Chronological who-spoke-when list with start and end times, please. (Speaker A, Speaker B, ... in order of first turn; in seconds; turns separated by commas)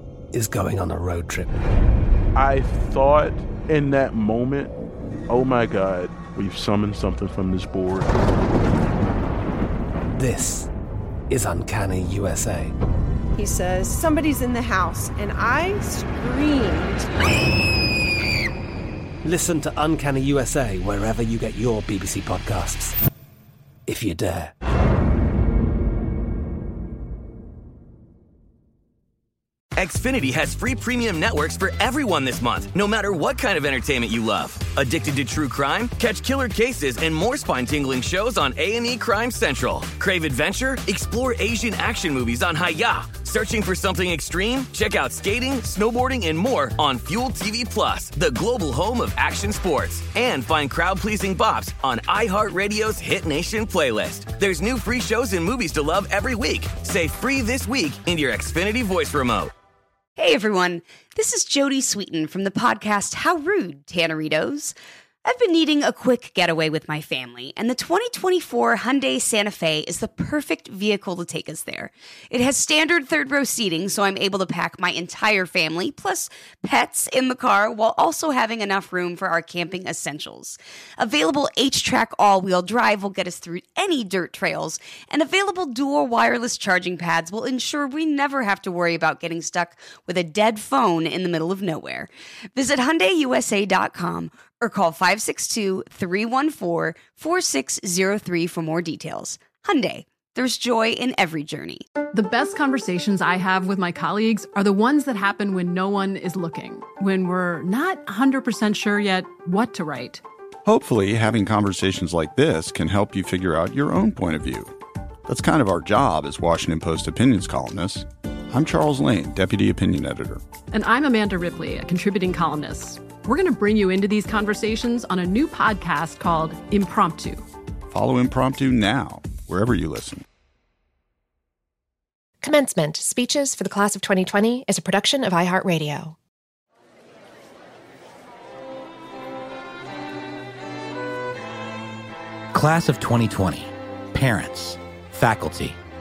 Speaker A: 0.3-1.6, Speaker B: 2.3-4.7, Speaker B: 5.3-8.1, Speaker A: 10.2-10.7, Speaker A: 11.3-12.7, Speaker C: 13.3-17.1, Speaker A: 19.2-22.9, Speaker A: 23.9-24.5, Speaker D: 29.8-59.5, Speaker E: 60.2-101.9, Speaker F: 102.1-110.2, Speaker G: 110.6-114.7, Speaker G: 115.3-120.4, Speaker F: 120.7-127.4, Speaker G: 127.9-130.2, Speaker H: 132.4-136.2, Speaker I: 142.5-145.8